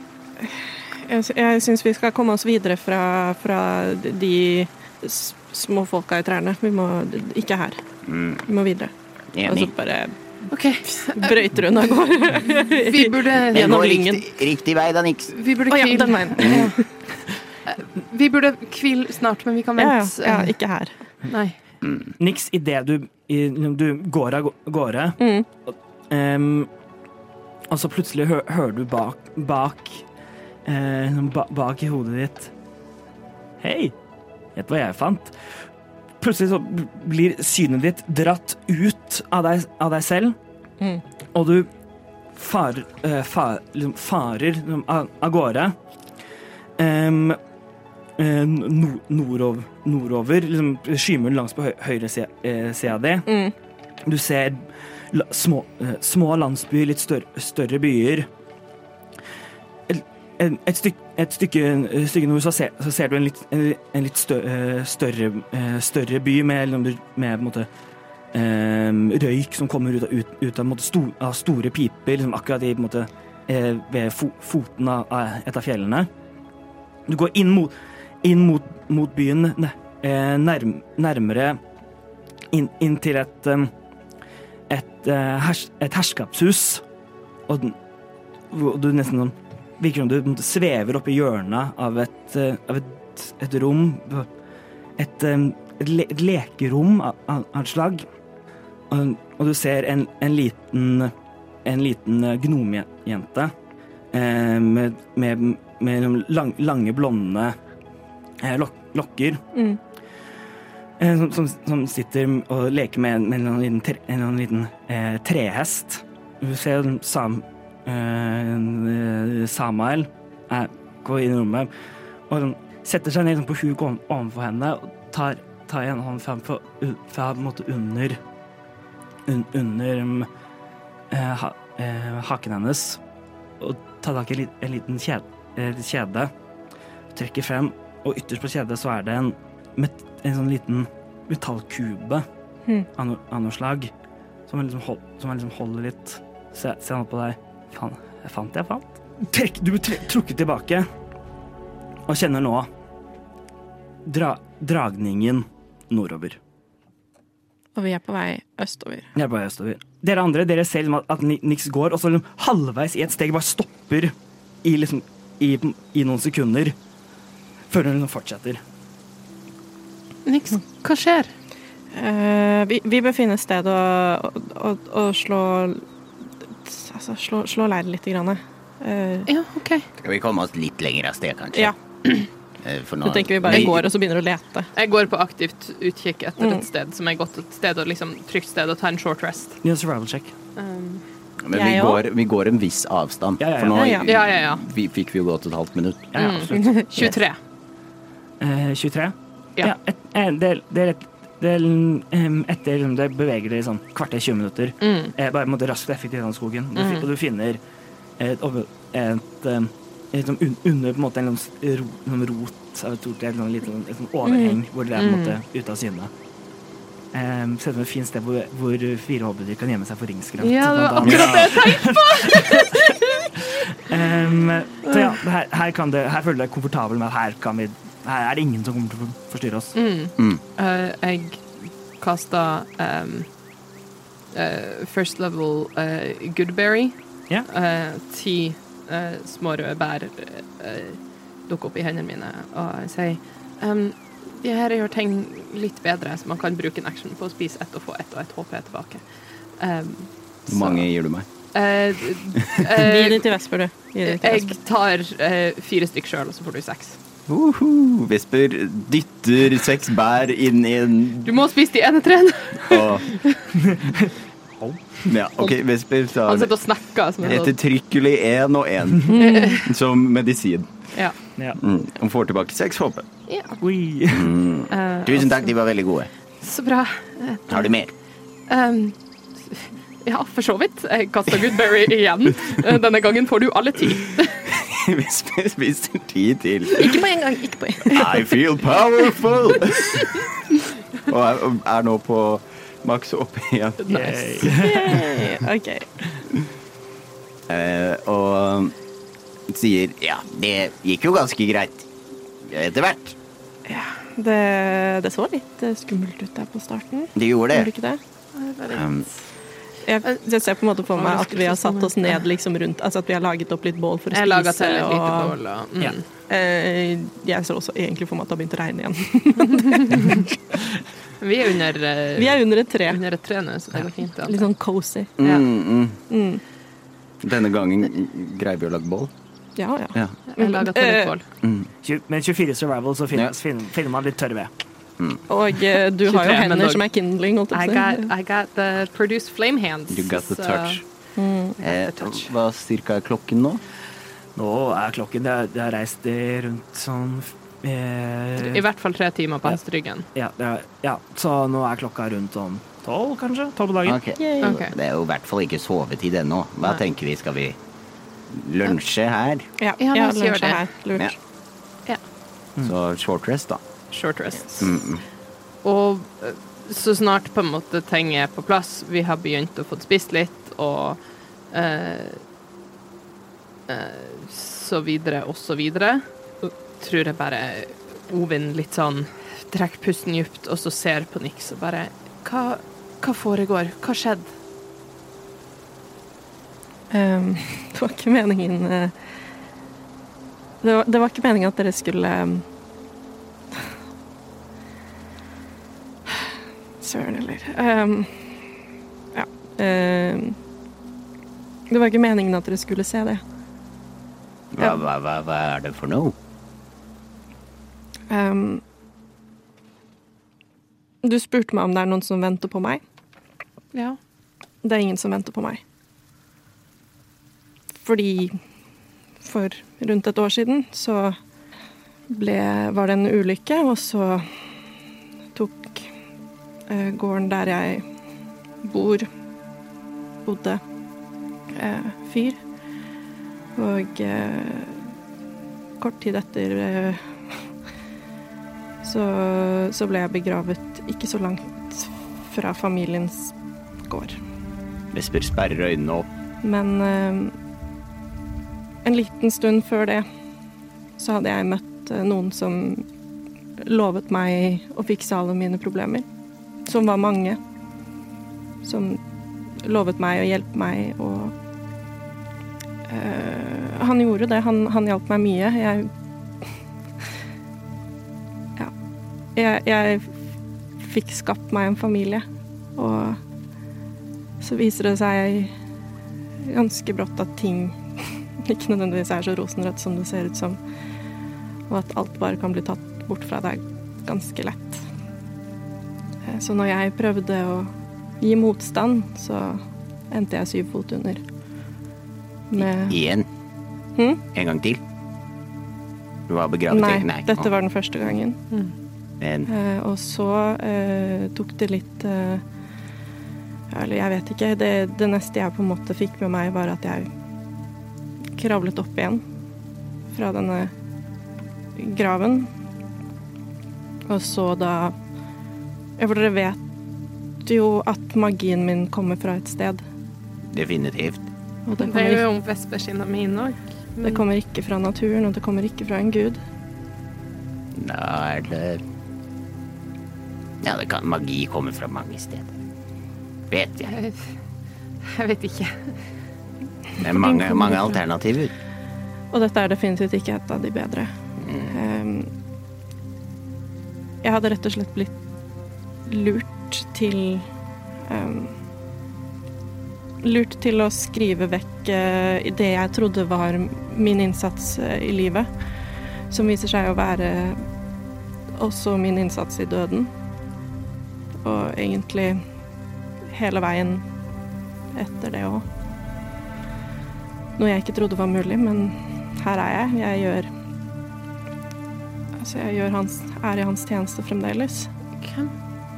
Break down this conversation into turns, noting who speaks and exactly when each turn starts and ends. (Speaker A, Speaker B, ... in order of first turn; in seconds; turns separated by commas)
Speaker A: 0.4-7.8, Speaker B: 8.1-8.4, Speaker A: 8.5-8.9, Speaker B: 9.3-9.7, Speaker A: 9.4-10.1, Speaker C: 10.5-11.4, Speaker A: 10.9-14.2, Speaker C: 12.6-13.8, Speaker B: 13.5-15.3, Speaker C: 15.3-16.8, Speaker A: 15.7-16.8, Speaker C: 17.7-20.5, Speaker A: 19.8-20.9, Speaker C: 21.3-21.6, Speaker D: 22.2-26.7, Speaker A: 25.2-25.5, Speaker D: 27.7-30.1, Speaker D: 30.7-32.5, Speaker D: 33.6-33.9, Speaker D: 34.6-35.4, Speaker D: 36.2-40.4, Speaker D: 41.3-41.7, Speaker D: 42.3-45.8, Speaker D: 46.8-47.4, Speaker D: 48.2-53.3, Speaker A: 53.3-53.5, Speaker D: 54.0-58.3, Speaker D: 59.9-67.7, Speaker D: 68.3-76.1, Speaker D: 77.1-81.6, Speaker D: 82.5-83.7, Speaker D: 84.7-86.8, Speaker D: 87.5-87.8, Speaker D: 88.5-94.3, Speaker D: 95.0-98.0, Speaker D: 98.9-101.1, Speaker D: 101.6-103.5, Speaker D: 104.1-107.6, Speaker D: 108.4-109.4, Speaker A: 109.5-109.8, Speaker D: 111.0-121.7, Speaker D: 122.3-128.2, Speaker D: 129.3-130.3, Speaker D: 131.1-133.0, Speaker D: 133.6-136.3, Speaker D: 137.1-142.2, Speaker D: 143.0-143.9, Speaker D: 144.5-150.9, Speaker D: 152.1-152.7, Speaker D: 154.1-156.4, Speaker A: 157.8-159.1, Speaker D: 159.1-166.8, Speaker D: 167.7-168.6, Speaker C: 170.3-171.3, Speaker A: 171.9-175.8, Speaker A: 176.6-179.3, Speaker C: 179.3-179.9, Speaker B: 180.0-181.7, Speaker A: 181.5-182.3, Speaker B: 182.6-183.8, Speaker A: 183.0-184.7, Speaker C: 184.8-189.6, Speaker A: 186.4-186.6, Speaker D: 189.6-190.3, Speaker C: 190.6-191.0, Speaker E: 191.5-196.1, Speaker A: 191.5-192.0, Speaker D: 193.4-193.8, Speaker A: 193.7-194.1, Speaker C: 194.0-194.6, Speaker D: 196.1-196.7, Speaker C: 196.1-197.4, Speaker A: 196.5-197.2, Speaker D: 198.4-207.6, Speaker C: 204.8-205.1, Speaker C: 206.8-207.1, Speaker D: 208.2-216.1, Speaker A: 214.2-214.6, Speaker C: 215.0-215.4, Speaker D: 217.1-229.8, Speaker C: 220.4-223.3, Speaker E: 221.0-221.4, Speaker C: 229.7-231.4, Speaker C: 232.0-233.3, Speaker C: 234.3-249.0, Speaker C: 249.6-250.9, Speaker E: 250.5-251.3, Speaker C: 251.5-253.3, Speaker A: 252.8-254.6, Speaker C: 254.1-257.0, Speaker E: 257.3-261.3, Speaker C: 261.2-263.4, Speaker E: 262.7-263.1, Speaker D: 263.5-265.0, Speaker E: 265.1-266.5, Speaker C: 266.2-267.6, Speaker E: 267.2-270.7, Speaker A: 269.1-269.6, Speaker C: 269.1-269.7, Speaker E: 271.6-273.1, Speaker C: 273.3-273.6, Speaker D: 273.6-274.4, Speaker B: 274.2-276.1, Speaker C: 274.7-275.5, Speaker C: 276.4-277.7, Speaker B: 277.5-277.9, Speaker C: 278.5-284.5, Speaker E: 284.5-287.0, Speaker A: 286.7-288.4, Speaker E: 287.9-290.1, Speaker E: 291.1-295.0, Speaker C: 293.8-294.5, Speaker D: 293.9-295.0, Speaker A: 294.5-295.9, Speaker E: 297.5-298.7, Speaker E: 299.5-301.8, Speaker B: 300.6-301.3, Speaker E: 302.6-302.9, Speaker B: 302.6-303.0, Speaker A: 303.7-308.0, Speaker E: 307.3-307.7, Speaker C: 308.3-309.1, Speaker A: 309.8-315.4, Speaker C: 310.9-312.2, Speaker C: 314.1-316.1, Speaker A: 316.3-320.3, Speaker C: 319.5-320.2, Speaker C: 321.2-324.5, Speaker A: 322.2-323.0, Speaker A: 324.2-325.4, Speaker E: 325.2-326.0, Speaker A: 326.1-326.4, Speaker E: 327.2-329.1, Speaker A: 329.6-331.1, Speaker C: 330.3-331.2, Speaker D: 331.8-334.5, Speaker A: 335.3-338.1, Speaker C: 336.0-336.9, Speaker C: 337.5-340.8, Speaker E: 339.9-340.8, Speaker A: 341.2-341.6, Speaker C: 341.6-342.2, Speaker E: 341.8-343.6, Speaker D: 344.4-348.6, Speaker C: 348.4-350.1, Speaker D: 350.1-354.0, Speaker B: 353.9-357.6, Speaker A: 354.2-354.6, Speaker C: 354.4-354.7, Speaker B: 358.4-359.5, Speaker A: 359.6-361.2, Speaker C: 359.8-360.6, Speaker E: 362.6-363.6, Speaker C: 363.9-364.7, Speaker E: 364.6-365.0, Speaker C: 365.6-372.2, Speaker C: 373.7-384.3, Speaker A: 386.9-388.9, Speaker A: 390.6-392.4, Speaker A: 396.8-398.3, Speaker A: 399.1-400.4, Speaker A: 401.7-403.2, Speaker B: 404.5-406.1, Speaker A: 408.1-408.6, Speaker A: 411.0-412.8, Speaker A: 414.6-415.6, Speaker A: 417.8-418.4, Speaker A: 419.2-421.2, Speaker A: 422.1-424.3, Speaker A: 425.3-425.9, Speaker A: 426.7-427.8, Speaker A: 428.6-429.1, Speaker A: 430.3-430.6, Speaker A: 431.5-432.4, Speaker A: 433.6-434.8, Speaker A: 435.8-437.1, Speaker A: 438.8-443.3, Speaker A: 443.9-444.2, Speaker E: 445.0-445.5, Speaker B: 445.0-446.0, Speaker A: 446.4-447.3, Speaker A: 448.8-450.1, Speaker A: 451.0-452.8, Speaker A: 453.6-456.1, Speaker A: 456.7-457.4, Speaker A: 458.6-459.0, Speaker A: 459.6-461.3, Speaker A: 462.9-465.9, Speaker A: 469.3-470.1, Speaker A: 470.8-472.2, Speaker A: 472.8-473.2, Speaker A: 474.4-475.5, Speaker A: 476.5-477.8, Speaker A: 478.4-480.6, Speaker A: 481.7-484.8, Speaker A: 486.3-491.2, Speaker A: 492.5-493.0, Speaker B: 492.9-493.2, Speaker B: 494.4-494.8, Speaker B: 496.3-497.4, Speaker A: 496.7-498.4, Speaker A: 499.5-502.4, Speaker A: 503.7-507.1, Speaker A: 508.4-509.2, Speaker A: 510.1-510.7, Speaker A: 511.8-512.5, Speaker A: 514.1-514.9, Speaker A: 516.0-516.6, Speaker A: 517.4-519.8, Speaker B: 520.5-521.2, Speaker A: 521.7-522.2, Speaker C: 521.8-524.3, Speaker A: 524.0-526.4, Speaker B: 527.8-528.8, Speaker B: 530.6-532.5, Speaker B: 533.5-533.9, Speaker C: 533.8-534.2, Speaker C: 535.0-535.9, Speaker B: 537.0-538.5, Speaker A: 539.3-541.1, Speaker A: 541.7-542.3, Speaker A: 544.2-545.1, Speaker A: 546.1-547.5, Speaker A: 548.1-548.5, Speaker A: 550.2-555.5, Speaker A: 556.3-557.6, Speaker A: 558.6-560.1, Speaker A: 561.4-562.4, Speaker A: 563.3-564.0, Speaker A: 564.9-565.6, Speaker A: 567.6-570.5, Speaker A: 572.4-574.9, Speaker C: 575.2-575.5